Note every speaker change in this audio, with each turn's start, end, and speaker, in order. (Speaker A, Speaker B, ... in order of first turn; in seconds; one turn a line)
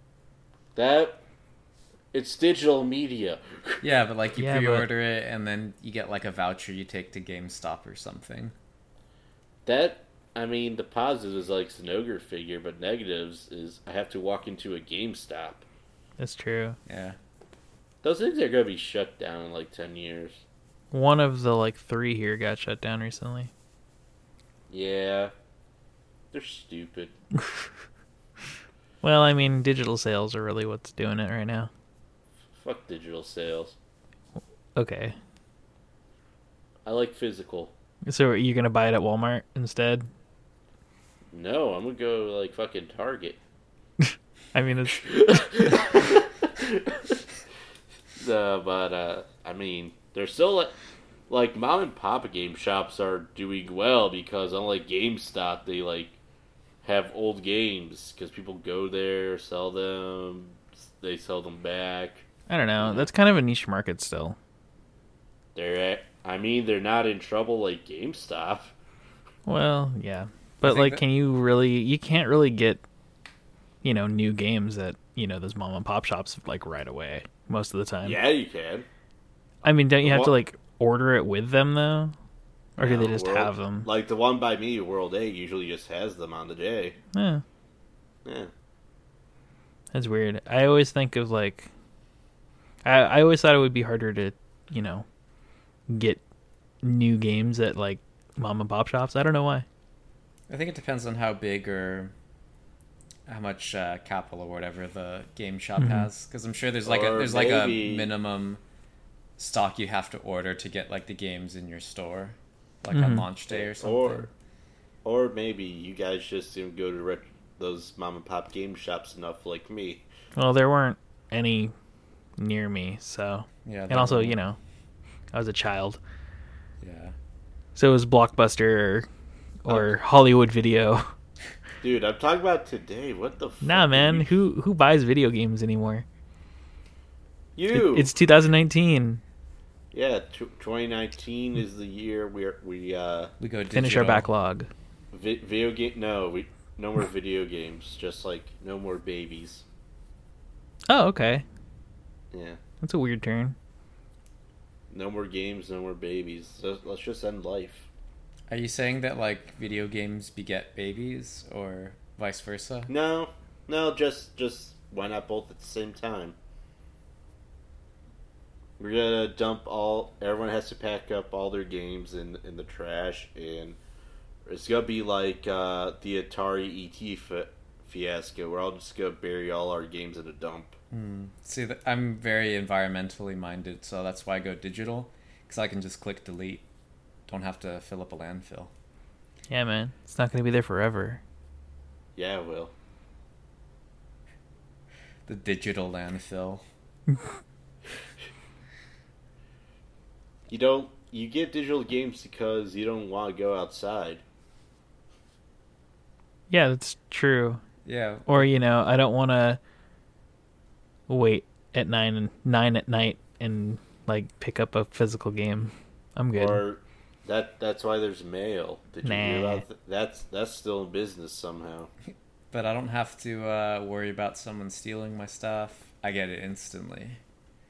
Speaker A: 0.8-1.2
Speaker A: 2.1-3.8
Speaker B: 3.8-8.5
Speaker C: 4.4-4.9
Speaker A: 9.7-15.7
Speaker C: 16.2-16.8
Speaker B: 16.9-17.2
Speaker A: 18.0-20.4
Speaker C: 20.9-23.5
Speaker A: 24.7-25.3
Speaker A: 26.3-27.1
Speaker C: 29.0-31.7
Speaker A: 32.5-33.8
Speaker C: 34.8-35.2
Speaker A: 36.9-37.7
Speaker C: 38.1-40.1
Speaker A: 41.3-43.4
Speaker C: 44.0-45.4
Speaker A: 45.0-47.2
Speaker A: 48.2-50.8
Speaker A: 51.3-56.2
Speaker A: 56.8-62.3
Speaker C: 62.5-64.4
Speaker A: 62.8-63.1
Speaker A: 65.5-68.7
Speaker C: 69.5-72.8
Speaker B: 70.6-71.0
Speaker C: 73.8-78.2
Speaker A: 78.0-78.9
Speaker C: 79.6-82.1
Speaker A: 80.0-80.3
Speaker C: 82.8-83.9
Speaker A: 82.8-87.0
Speaker C: 87.1-87.4
Speaker A: 88.2-88.5
Speaker C: 89.9-91.7
Speaker C: 92.8-95.1
Speaker C: 95.9-96.2
Speaker C: 96.8-99.7
Speaker B: 100.5-102.1
Speaker B: 103.3-108.6
Speaker C: 105.8-106.1
Speaker A: 106.8-108.1
Speaker B: 109.4-114.3
Speaker C: 112.9-113.3
Speaker A: 113.5-114.3
Speaker A: 115.0-120.0
Speaker C: 120.3-121.7
Speaker C: 122.4-124.6
Speaker B: 123.7-124.4
Speaker C: 125.3-126.0
Speaker B: 126.8-127.2
Speaker C: 127.8-129.1
Speaker C: 129.7-131.1
Speaker A: 131.8-134.3
Speaker C: 133.6-136.1
Speaker A: 137.6-138.1
Speaker C: 137.7-139.2
Speaker A: 139.9-143.3
Speaker B: 143.4-144.3
Speaker C: 143.7-144.7
Speaker A: 145.1-149.6
Speaker C: 150.9-151.4
Speaker A: 152.3-152.6
Speaker C: 152.8-153.6
Speaker A: 154.9-157.9
Speaker B: 158.5-162.9
Speaker A: 162.9-166.4
Speaker A: 168.8-173.8
Speaker A: 174.5-180.8
Speaker B: 180.9-186.7
Speaker B: 187.3-188.7
Speaker C: 189.5-191.2
Speaker A: 192.2-192.7
Speaker B: 195.3-196.6
Speaker A: 200.5-204.2
Speaker C: 206.5-207.6
Speaker B: 207.8-208.5
Speaker C: 208.3-209.6
Speaker C: 211.1-216.6
Speaker A: 216.3-221.9
Speaker C: 219.0-219.6
Speaker B: 222.5-227.2